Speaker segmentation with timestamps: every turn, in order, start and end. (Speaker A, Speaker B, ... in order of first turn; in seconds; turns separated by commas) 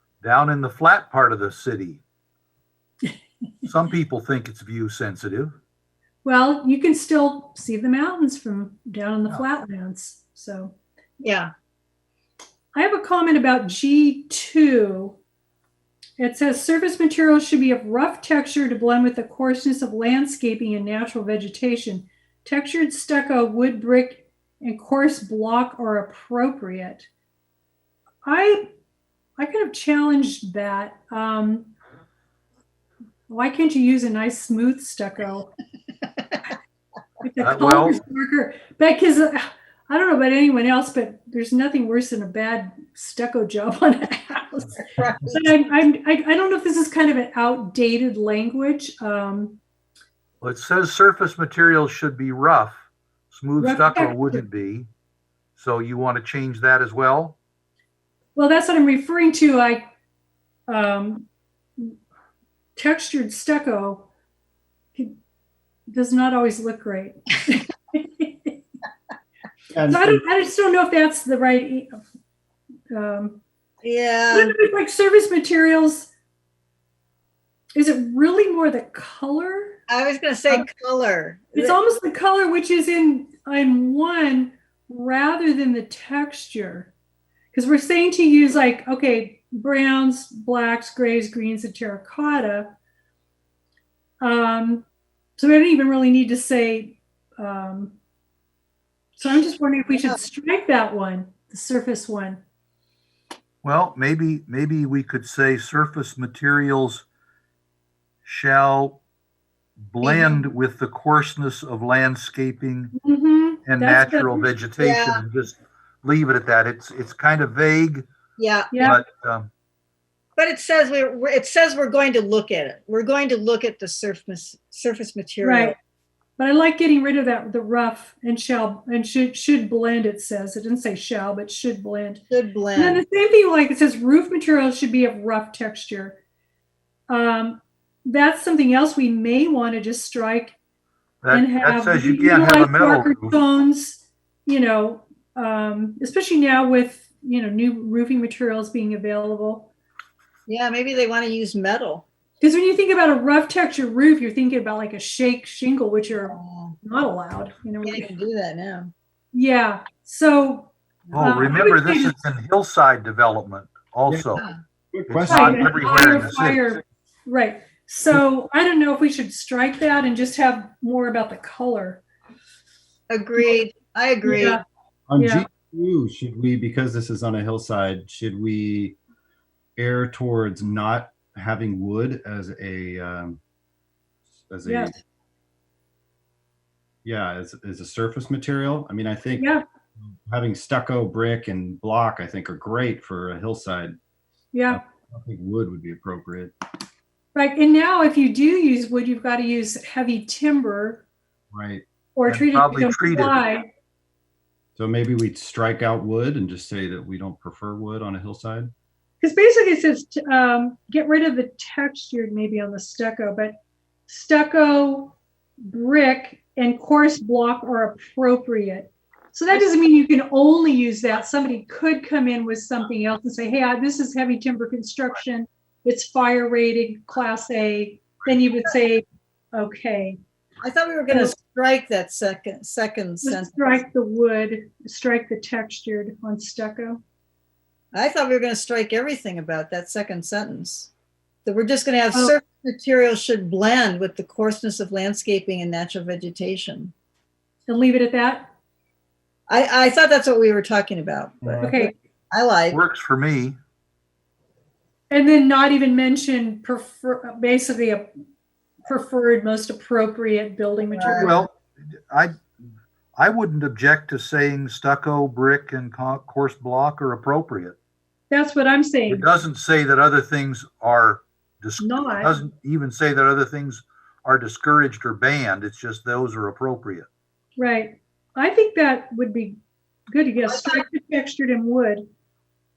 Speaker A: 0.2-2.0, Speaker A: 3.6-5.5, Speaker B: 6.2-10.7, Speaker C: 11.2-11.5, Speaker B: 12.7-15.2, Speaker B: 16.2-27.1, Speaker B: 28.2-28.7, Speaker B: 29.4-31.7, Speaker B: 33.3-35.5, Speaker B: 37.2-49.6, Speaker A: 37.4-38.0, Speaker C: 44.9-45.5, Speaker A: 50.4-54.9, Speaker B: 53.6-54.4, Speaker A: 55.6-57.4, Speaker B: 58.3-59.9, Speaker B: 60.7-61.9, Speaker B: 62.8-64.1, Speaker B: 65.9-68.6, Speaker D: 69.7-70.2, Speaker B: 69.9-72.0, Speaker B: 72.9-73.4, Speaker C: 73.8-74.5, Speaker B: 74.3-76.1, Speaker B: 77.7-79.8, Speaker C: 79.9-81.8, Speaker B: 81.5-86.9, Speaker B: 87.5-92.8, Speaker B: 94.2-97.9, Speaker B: 99.2-102.4, Speaker A: 103.6-107.0, Speaker A: 108.2-109.0, Speaker A: 109.8-112.9, Speaker C: 110.0-110.4, Speaker B: 113.0-114.5, Speaker A: 113.7-118.0, Speaker C: 114.8-115.2, Speaker C: 118.4-118.9, Speaker B: 118.7-119.0, Speaker A: 118.8-119.5, Speaker C: 120.4-125.8, Speaker B: 125.4-125.8, Speaker B: 126.4-132.2, Speaker C: 132.3-133.0, Speaker B: 132.8-136.2, Speaker B: 137.1-140.6, Speaker A: 141.2-143.4, Speaker B: 141.3-149.7, Speaker C: 150.5-152.1, Speaker B: 152.4-158.1, Speaker C: 156.3-156.8, Speaker C: 157.8-158.9, Speaker B: 159.3-162.2, Speaker A: 161.1-164.4, Speaker D: 164.1-166.1, Speaker A: 165.1-166.7, Speaker B: 165.3-172.0, Speaker C: 173.1-174.6, Speaker B: 174.2-174.6, Speaker D: 175.1-179.0, Speaker B: 175.2-175.5, Speaker D: 179.8-183.4, Speaker D: 184.3-184.9, Speaker B: 184.7-184.9, Speaker D: 187.0-189.5, Speaker B: 189.4-189.6, Speaker D: 190.3-193.9, Speaker B: 194.5-194.8, Speaker D: 194.7-196.5, Speaker B: 197.3-201.0, Speaker D: 201.5-201.8, Speaker B: 202.2-203.7, Speaker A: 202.2-203.4, Speaker D: 204.8-208.7, Speaker B: 209.2-213.5, Speaker B: 214.1-230.2, Speaker C: 230.6-233.8, Speaker B: 231.1-231.3, Speaker B: 233.2-237.0, Speaker C: 237.9-240.9, Speaker C: 241.4-246.9, Speaker B: 247.7-248.5, Speaker C: 249.5-252.8, Speaker B: 251.6-251.9, Speaker A: 252.7-253.6, Speaker B: 255.1-258.1, Speaker B: 258.9-261.4, Speaker C: 260.9-261.4, Speaker A: 261.2-261.5, Speaker A: 262.1-262.4, Speaker A: 263.2-267.8, Speaker B: 268.3-269.3, Speaker A: 269.1-277.1, Speaker B: 271.8-272.4, Speaker B: 277.6-279.6, Speaker B: 280.1-282.1, Speaker C: 280.5-280.8